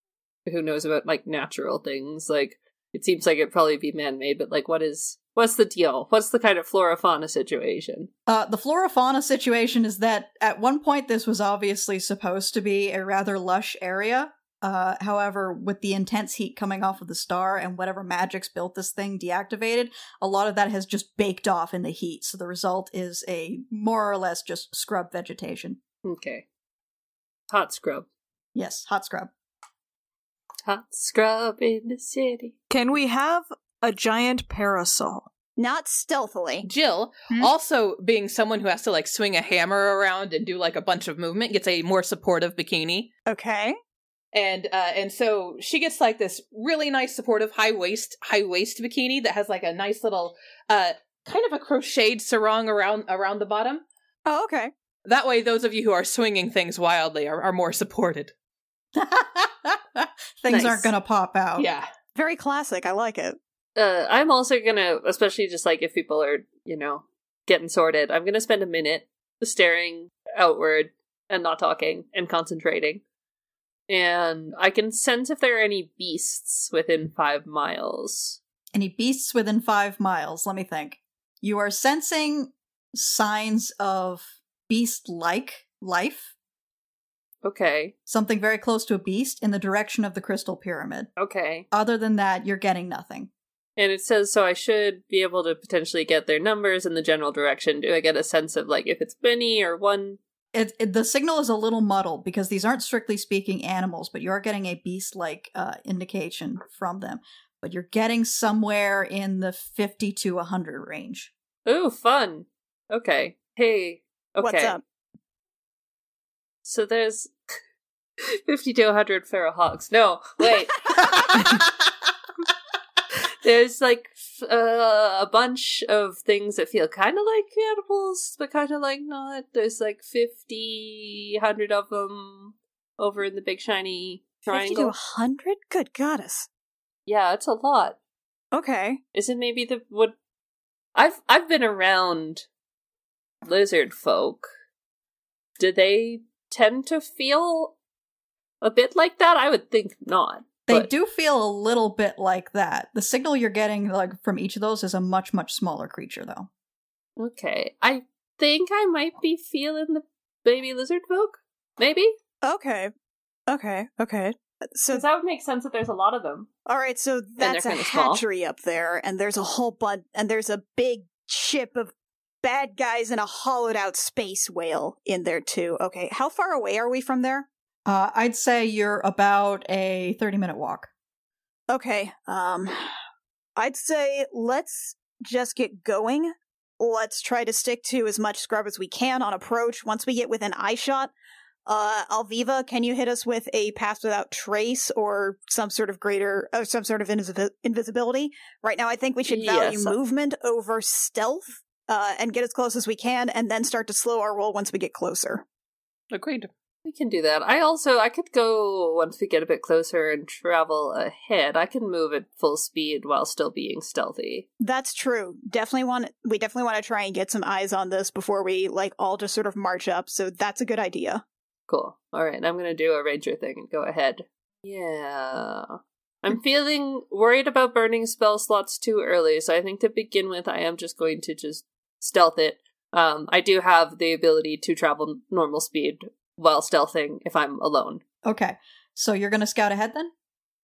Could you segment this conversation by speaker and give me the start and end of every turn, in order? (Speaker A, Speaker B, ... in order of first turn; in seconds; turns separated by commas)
Speaker A: 0.5-8.1, Speaker B: 8.3-25.8, Speaker A: 26.0-26.4, Speaker A: 27.5-28.1, Speaker B: 28.5-29.3, Speaker A: 30.6-32.5, Speaker C: 32.7-35.3, Speaker D: 35.6-36.6, Speaker E: 36.6-43.1, Speaker D: 43.3-43.8, Speaker E: 44.3-53.8, Speaker D: 54.2-54.7, Speaker E: 55.0-58.3, Speaker B: 58.9-61.7, Speaker A: 60.5-60.9, Speaker E: 61.6-61.9, Speaker D: 62.1-63.4, Speaker A: 63.8-73.0, Speaker A: 73.9-78.4, Speaker B: 78.7-86.3, Speaker A: 87.4-87.9, Speaker B: 88.1-91.1, Speaker A: 91.2-91.7, Speaker B: 91.7-93.3, Speaker A: 93.8-100.2, Speaker B: 100.5-111.3, Speaker A: 111.6-114.8, Speaker D: 114.4-114.8, Speaker A: 116.6-117.3, Speaker A: 118.3-121.1, Speaker A: 123.4-134.9, Speaker D: 134.5-136.5, Speaker A: 137.1-138.0, Speaker D: 138.5-139.0, Speaker A: 139.1-140.1, Speaker A: 140.9-142.4, Speaker A: 143.4-144.5, Speaker A: 145.6-147.8, Speaker A: 148.6-150.9, Speaker B: 150.7-156.5, Speaker A: 157.2-162.2, Speaker D: 162.4-162.9, Speaker D: 163.5-165.0, Speaker A: 164.9-166.5, Speaker D: 166.7-171.9, Speaker A: 167.4-168.2, Speaker D: 172.4-177.5, Speaker B: 177.9-180.9, Speaker D: 181.7-182.9, Speaker D: 183.6-191.1, Speaker D: 191.7-205.4, Speaker A: 199.3-199.9, Speaker E: 206.1-206.5, Speaker A: 206.8-214.5, Speaker D: 214.6-221.2, Speaker A: 221.7-238.0, Speaker B: 238.2-240.1